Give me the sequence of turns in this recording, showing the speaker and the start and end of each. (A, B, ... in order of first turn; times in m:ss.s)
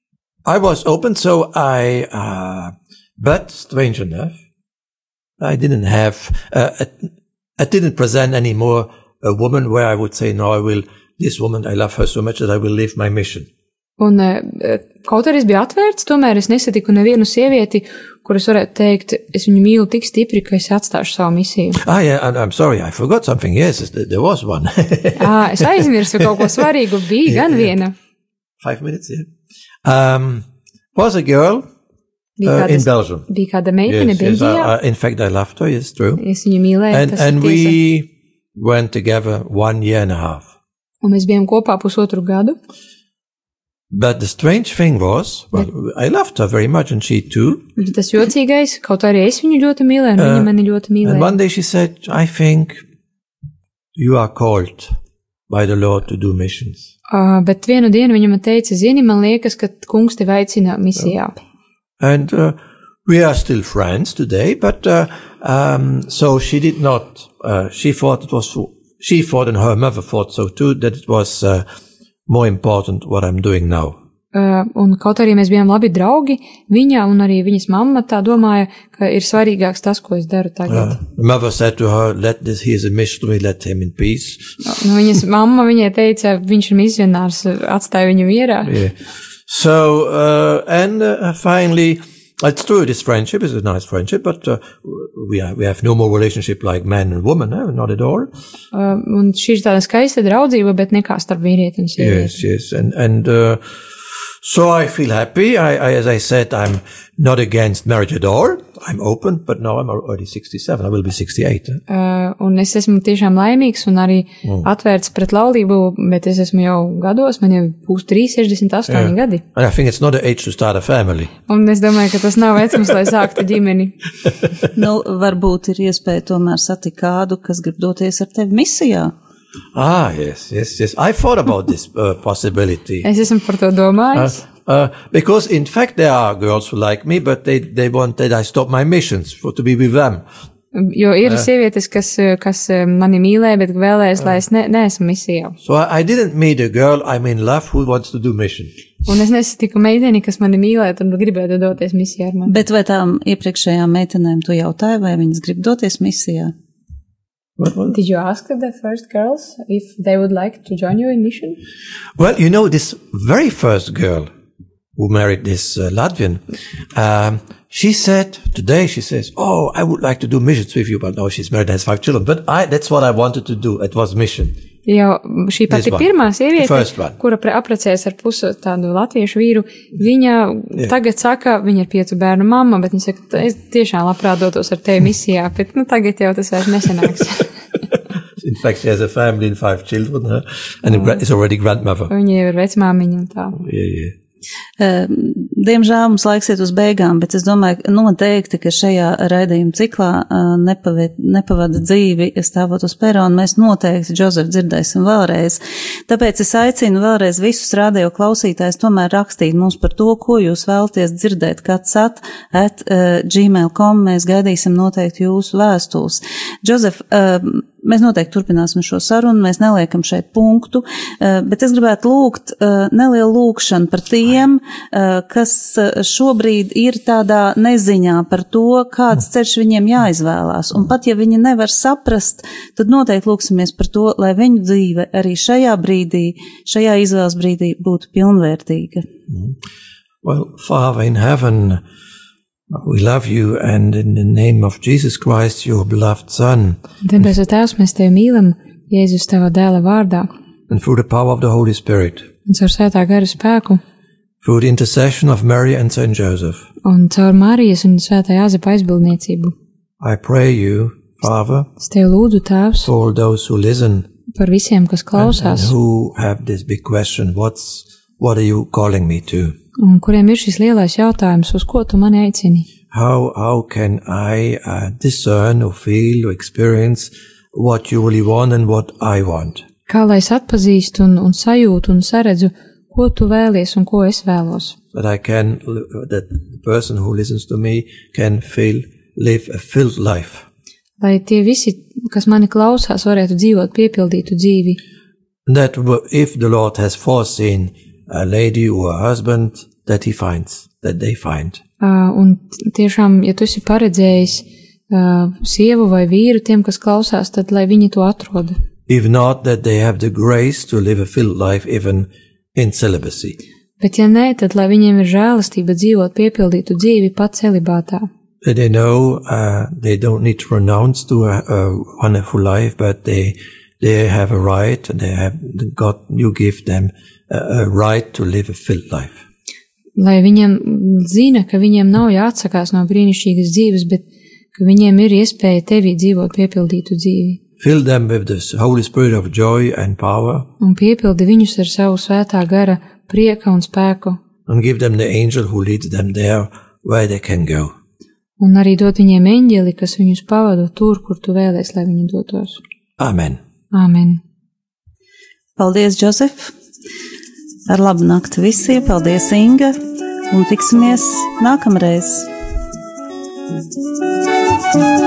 0:00.4-0:04.3 A
0:05.4-0:13.5 A
0:14.0-0:21.8 B
0:21.8-0:26.5 A
0:25.2-0:27.9 B
0:27.2-0:27.7 A
0:28.6-0:29.3 A
0:29.8-0:31.7 A
0:32.4-0:34.7 B
0:32.4-0:33.3 A
0:33.9-0:36.2 A
0:36.2-0:37.8 B
0:36.9-0:40.5 A
0:41.0-0:42.6 B
0:43.9-0:47.7 A
0:47.8-0:51.3 B
0:50.2-0:50.5 A
0:51.0-0:52.8 A
0:54.0-0:54.9 A
0:55.5-0:56.9 A
0:57.1-1:01.3 B
1:02.0-1:11.6 A
1:12.3-1:14.0 A
1:14.3-1:21.0 B
1:20.7-1:24.5 A
1:24.6-1:28.7 B
1:28.6-1:28.9 A
1:29.5-1:38.3 A
1:38.7-1:42.4 B
1:42.0-1:43.6 A
1:44.4-1:51.8 A
1:51.9-1:59.4 B
1:58.9-2:01.3 A
2:01.5-2:04.0 B
2:04.7-2:09.1 C
2:09.7-2:13.1 A
2:13.0-2:14.4 B
2:14.1-2:20.2 A
2:20.7-2:25.6 B
2:25.6-2:28.7 A
2:29.0-2:32.6 B
2:32.4-2:36.5 C
2:37.6-2:37.9 A
2:37.9-2:41.6 B
2:42.2-2:44.3 A
2:45.0-2:46.4 A
2:46.9-2:54.5 A
2:54.8-3:07.5 B
2:55.7-2:57.2 A
3:08.4-3:12.1 A
3:12.1-3:13.6 B
3:13.6-3:14.1 A
3:14.8-3:59.0 C
3:59.3-3:59.6 A
4:00.2-4:01.8 A
4:02.7-4:06.8 A
4:07.0-4:10.3 B
4:10.7-4:12.3 A
4:12.5-4:13.8 B
4:14.4-4:16.6 A
4:16.8-4:19.5 B
4:20.0-4:21.7 A
4:21.8-4:22.9 B
4:22.8-4:24.1 A
4:24.3-4:25.7 B
4:25.2-4:29.6 A
4:29.8-4:32.7 B
4:32.9-4:39.6 A
4:39.9-4:44.8 B
4:44.9-4:50.4 A
4:51.0-4:54.8 B
4:55.5-5:01.6 A
5:01.8-5:08.5 B
5:08.9-5:13.4 A
5:13.8-5:18.1 B
5:18.4-5:29.2 A
5:30.0-5:34.0 B
5:34.5-5:37.4 B
5:37.6-5:40.5 A
5:40.6-5:44.2 B
5:44.5-5:47.7 A
5:48.4-5:52.6 B
5:53.0-5:53.4 A
5:53.7-5:54.2 B
5:55.6-5:56.5 C
5:57.7-5:59.8 C
6:00.3-6:02.3 C